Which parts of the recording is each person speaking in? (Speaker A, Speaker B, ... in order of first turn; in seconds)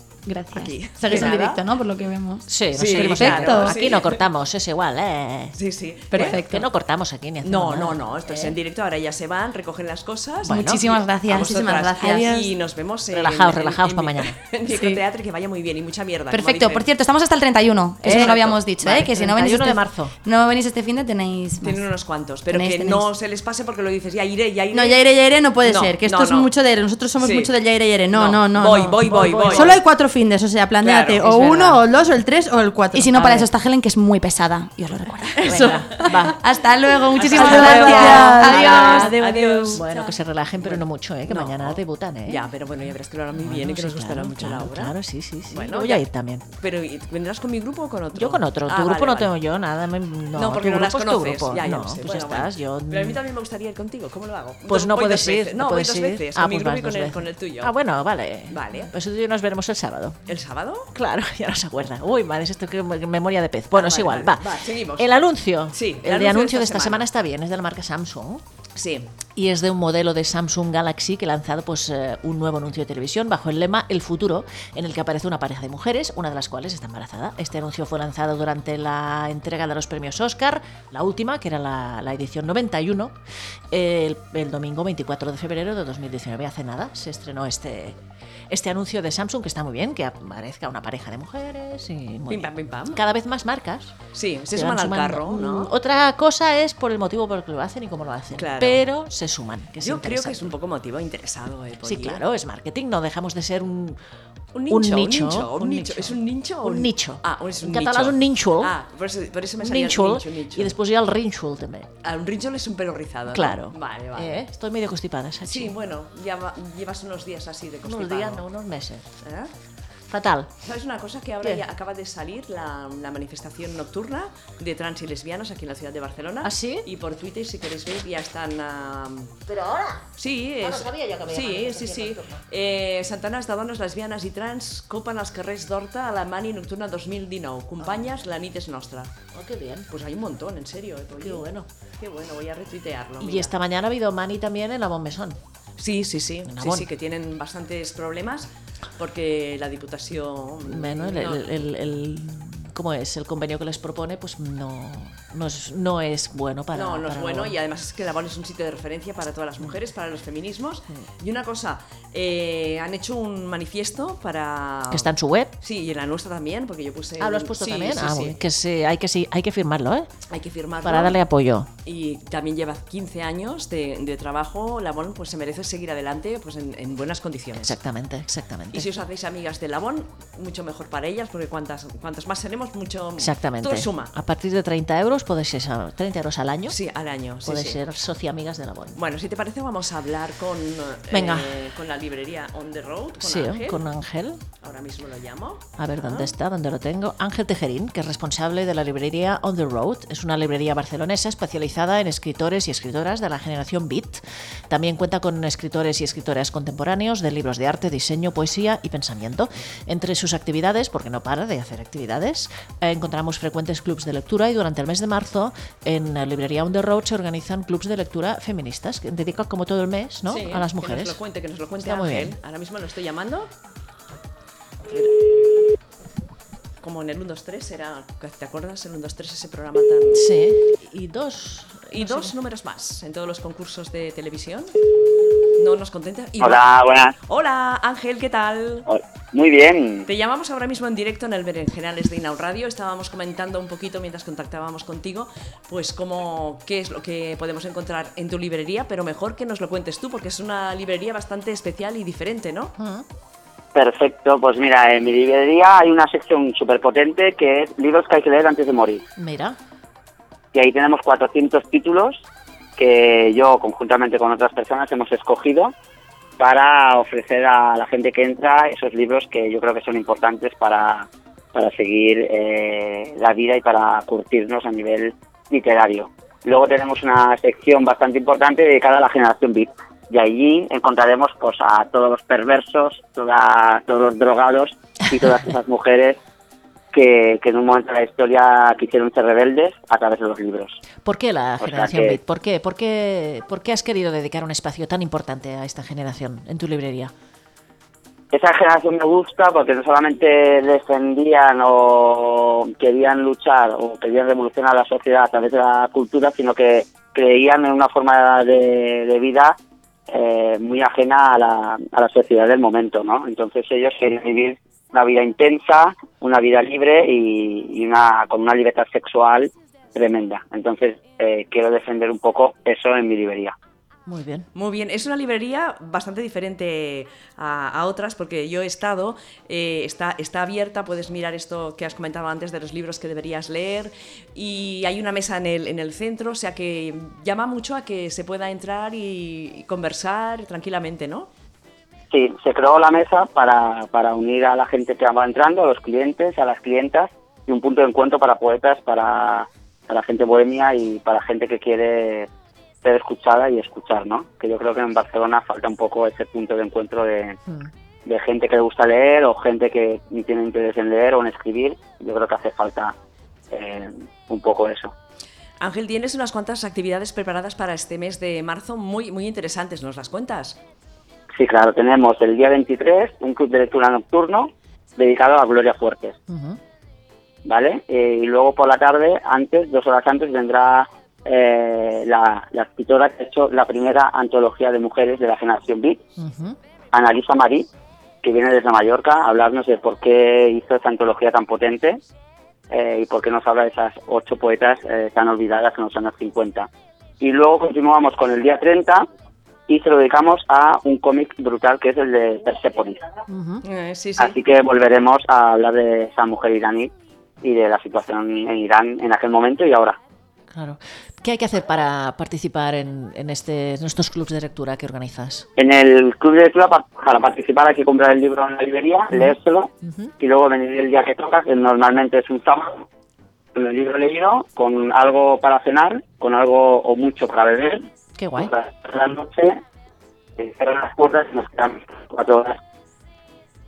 Speaker A: 0.3-2.5, 3.0-3.7, 6.1-6.6, 10.5-12.3, 16.3-21.8, 22.5-23.0, 32.9-35.7, 36.3-39.6
Speaker B: 0.5-1.6, 2.7-4.2, 5.5-6.4, 7.4-16.8, 18.0-18.6, 21.6-25.0, 25.6-26.5, 27.2-27.5, 28.1-29.8, 30.8-31.5, 37.1-44.9, 45.5-49.3, 50.3-57.7, 58.5-58.9, 60.3-60.9, 63.7-65.1, 65.7-67.1, 68.8-69.1, 92.3-93.0, 94.1-95.7, 98.3-98.8, 99.8-102.2, 104.5-110.8, 112.0-114.4, 115.5-118.4, 119.2-119.5, 120.6-129.4, 130.2-139.1, 139.9-141.4, 142.0-143.5, 145.8-151.4, 156.7-165.1, 165.6-168.4, 170.3-171.2, 171.8-177.8, 178.7-184.1, 186.7-187.8, 188.9-193.8, 194.6-196.3, 220.3-223.5, 226.8-230.3, 231.9-234.7, 235.6-236.7, 237.2-238.9, 240.1-252.7, 324.5-341.3, 365.6-370.6, 403.6-404.4
Speaker C: 2.5-5.5, 6.2-8.6, 10.4-10.8, 13.1-14.4, 18.0-20.1, 29.1-29.7, 35.4-36.4, 37.4-39.1, 39.7-42.5, 43.3-46.5, 48.1-53.2, 54.7-60.2, 60.9-68.4, 69.3-83.1, 83.7-88.0, 88.5-94.0, 94.5-100.5, 101.8-104.0, 104.7-108.7, 109.6-111.9, 113.3-115.7, 117.8-119.0, 120.1-120.5, 126.4-126.8, 129.5-130.1, 130.6-132.4, 137.8-138.1, 139.3-139.9, 141.2-141.7, 143.2-145.4, 146.4-146.8, 150.6-157.5, 164.9-165.5, 167.2-170.1, 170.8-171.7, 177.6-178.9, 183.2-186.8, 187.4-189.0, 191.1-191.5, 193.2-194.4, 195.8-221.2, 221.8-222.3, 230.1-232.3, 252.8-253.0, 259.2-259.6, 291.0-297.1, 324.1-324.5, 376.3-376.6, 386.2-386.6, 403.3-403.6, 410.5-415.4, 419.1-420.1, 428.1-428.5
Speaker D: 11.3-12.5, 24.7-33.5, 35.4-36.1, 37.3-39.8
Speaker E: 236.4-237.1, 238.9-240.1, 253.7-259.0, 260.5-262.2, 262.8-265.7, 266.4-286.2, 286.9-290.8, 291.6-292.2, 298.3-309.6, 310.1-323.5, 342.1-352.3, 352.8-357.4, 358.1-362.9, 363.5-364.9, 371.3-376.1, 377.4-386.0, 386.9-387.6, 388.2-392.0, 392.7-396.7, 397.2-399.1, 399.7-403.0, 404.2-406.9, 407.4-410.0, 415.6-422.8, 423.5-429.6, 430.4-432.6